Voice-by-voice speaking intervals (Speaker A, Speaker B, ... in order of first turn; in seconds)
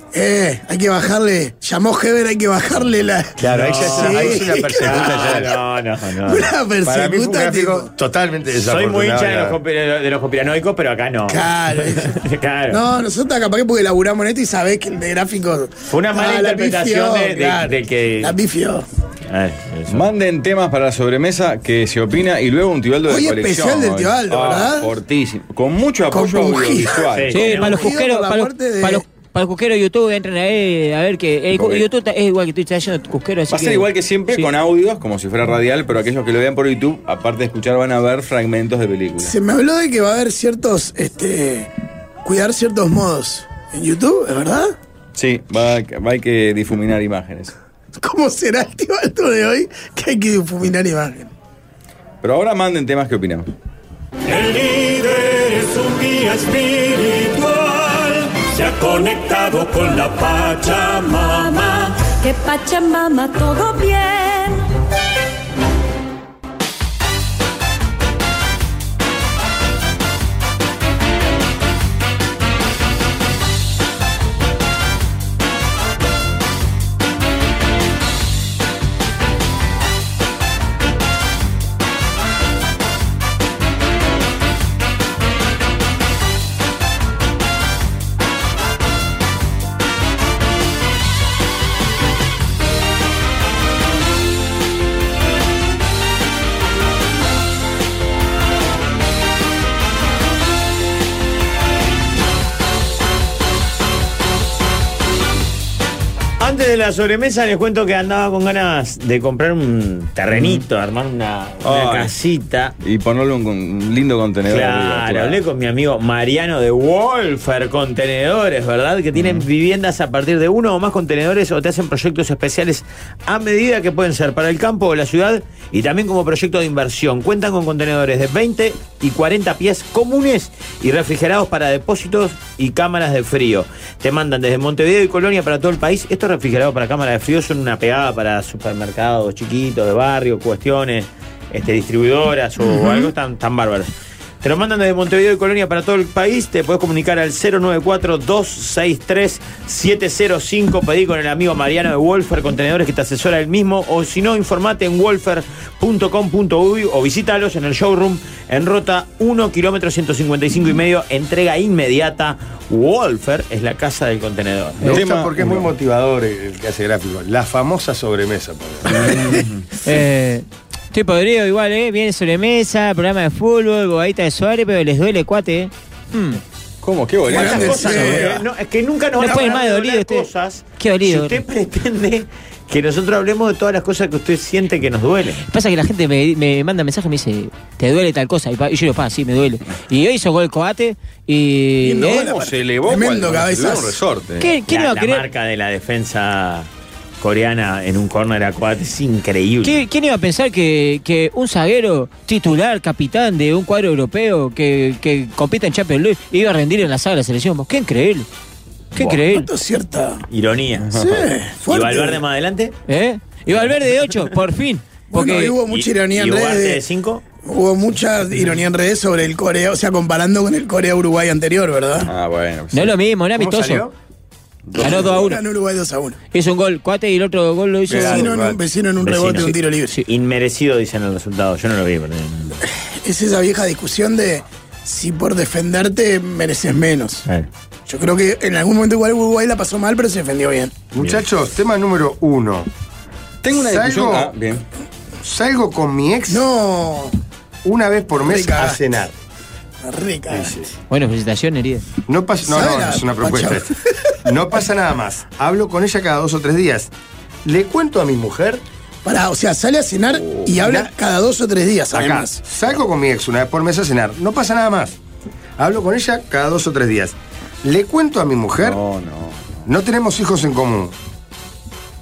Speaker A: 0.1-5.4, 6.2-7.9, 11.3-12.2, 12.7-18.9, 23.1-24.9, 26.1-29.0, 39.2-41.7, 42.2-44.7, 48.0-51.3, 177.3-178.4, 191.8-194.0, 209.0-210.2, 210.9-212.2, 215.1-216.8, 217.4-222.1, 224.8-226.2, 227.9-230.0, 232.7-237.2, 237.9-240.7, 246.3-247.2, 248.2-248.8, 249.8-250.6, 252.4-254.1, 259.0-262.4
Speaker B: 3.4-5.5, 6.8-9.6, 164.8-169.1, 223.3-223.9, 227.9-228.6, 240.9-242.7, 243.6-244.3, 245.2-246.4, 247.6-249.1, 250.3-250.7, 252.1-256.9, 257.4-258.6, 260.6-260.9, 261.9-265.0, 265.6-268.8, 269.6-270.9
Speaker C: 3.5-6.5, 8.6-12.8, 15.9-18.4, 19.3-20.0, 27.1-27.9, 106.4-112.7, 114.5-165.0, 177.3-185.4, 194.7-196.7, 197.2-199.8, 210.3-210.9, 211.7-212.7, 215.7-217.2, 229.0-232.6
Speaker D: 19.9-27.5, 31.5-31.8, 33.5-39.3, 45.1-47.5, 52.2-53.5, 110.3-110.6, 111.6-112.1, 112.8-115.4, 119.1-119.5, 164.8-165.7, 168.9-169.7, 176.8-178.1, 192.1-194.5, 210.9-211.2, 222.1-222.9, 224.7-225.1, 243.4-244.6, 260.1-260.5, 268.6-269.6
Speaker E: 27.3-34.5, 169.8-176.4, 177.9-178.3, 179.2-180.3, 180.8-181.4, 185.5-192.3, 194.4-195.2, 199.6-208.3, 208.9-209.5, 212.9-215.6, 222.7-223.8, 224.8-225.4, 226.3-228.3, 250.9-251.8
Speaker F: 54.3-61.9
Speaker G: 61.2-64.6